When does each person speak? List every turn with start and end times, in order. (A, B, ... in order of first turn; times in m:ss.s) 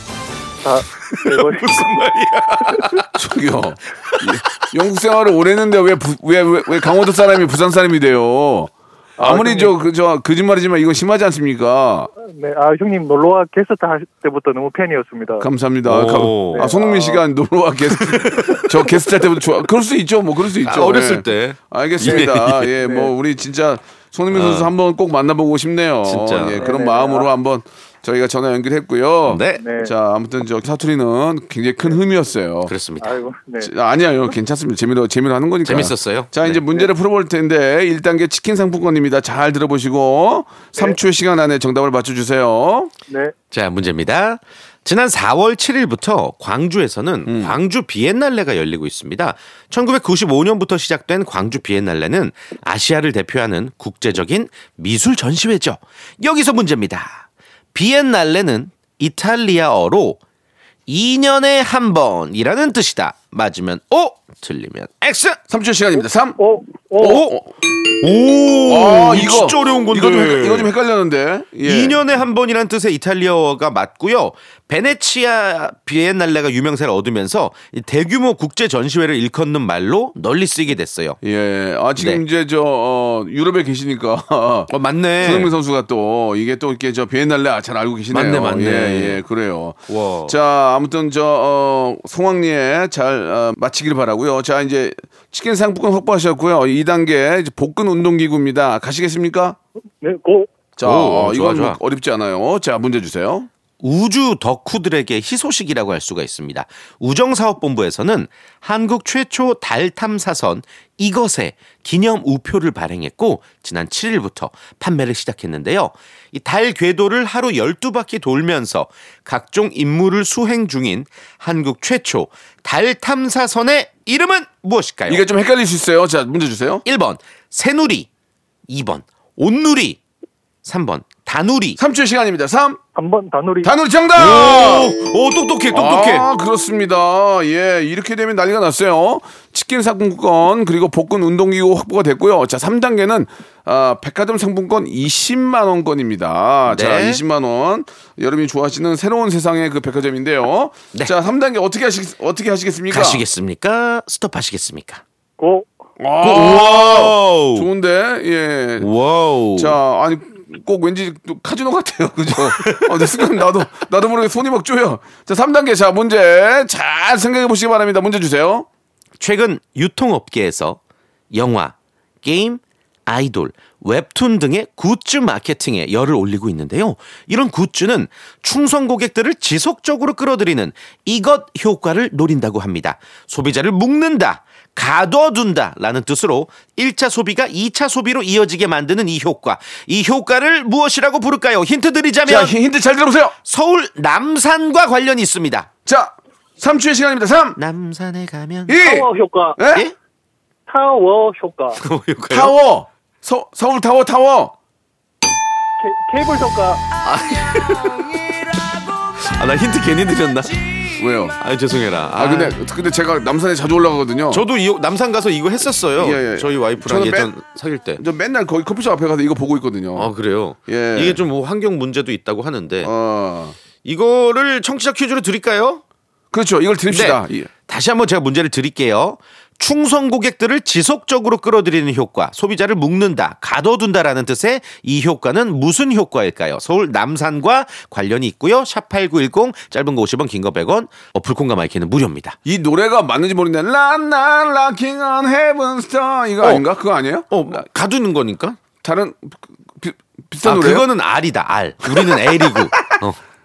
0:00.6-0:02.0 A
0:00.9-0:03.1 B
0:03.1-0:12.1 C
0:04.0-0:04.7 B
0:09.2-0:09.7 A
0:12.3-0:15.5 A
0:15.4-0:32.7 C
0:15.8-0:16.7 B
0:16.5-0:17.2 A
0:17.9-0:19.0 B
0:20.6-0:22.7 B
0:22.8-0:23.1 A
0:24.3-0:24.7 B
0:26.0-0:26.7 B
0:26.6-0:27.3 A
0:29.2-0:29.6 B
0:29.6-0:29.9 A
0:32.7-0:33.2 B
0:33.0-0:33.7 A
0:33.6-0:42.9 C
0:35.6-0:36.6 B
0:43.5-1:00.2 B
0:47.3-0:47.6 C
1:00.9-1:05.4 B
1:05.5-1:06.4 C
1:06.4-1:07.2 A
1:07.0-1:07.5 C
1:07.0-1:07.4 B
1:07.9-1:10.7 B
1:08.7-1:12.0 C
1:11.6-1:21.2 B
1:21.2-1:39.6 C
1:24.7-1:25.5 B
1:28.1-1:29.2 B
1:29.9-1:30.3 B
1:40.0-1:40.5 A
1:40.8-1:43.5 C
1:40.8-1:41.8 B
1:43.8-2:05.2 B
2:05.1-2:06.8 C
2:06.8-2:08.1 B
2:08.7-2:10.0 B
2:10.6-2:11.8 B
2:11.8-2:12.8 C
2:13.0-2:13.7 A
2:13.6-2:14.9 C
2:14.2-2:16.3 B
2:15.7-2:33.2 C
2:26.7-2:27.2 B
2:32.9-2:35.0 B
2:35.4-2:35.7 A
2:36.0-2:38.9 C
2:36.2-2:37.7 B
2:38.8-2:39.8 B
2:39.6-2:48.7 C
2:42.6-2:43.1 B
2:49.2-2:50.8 B
2:51.3-3:12.5 B
3:12.2-3:13.4 C
3:13.4-3:15.7 B
3:15.8-3:17.6 C
3:17.6-3:18.8 B
3:18.7-3:19.8 C
3:18.8-3:19.6 A
3:20.7-3:21.8 A
3:21.8-3:22.5 B
3:22.3-3:24.5 C
3:25.8-3:26.8 A
3:27.0-3:28.2 B
3:29.2-3:32.5 B
3:31.0-3:31.4 C
3:32.1-3:34.4 C
3:34.3-3:38.0 B
3:36.0-3:37.3 C
3:38.0-3:40.1 C
3:40.0-3:42.9 B
3:40.6-3:41.2 C
3:42.8-3:43.6 C
3:43.8-3:45.8 B
3:46.3-3:47.5 C
3:46.9-4:02.4 B
4:02.4-4:07.6 C
4:07.3-4:08.6 B
4:08.8-4:10.8 C
4:10.4-4:13.2 B
4:11.8-4:13.0 C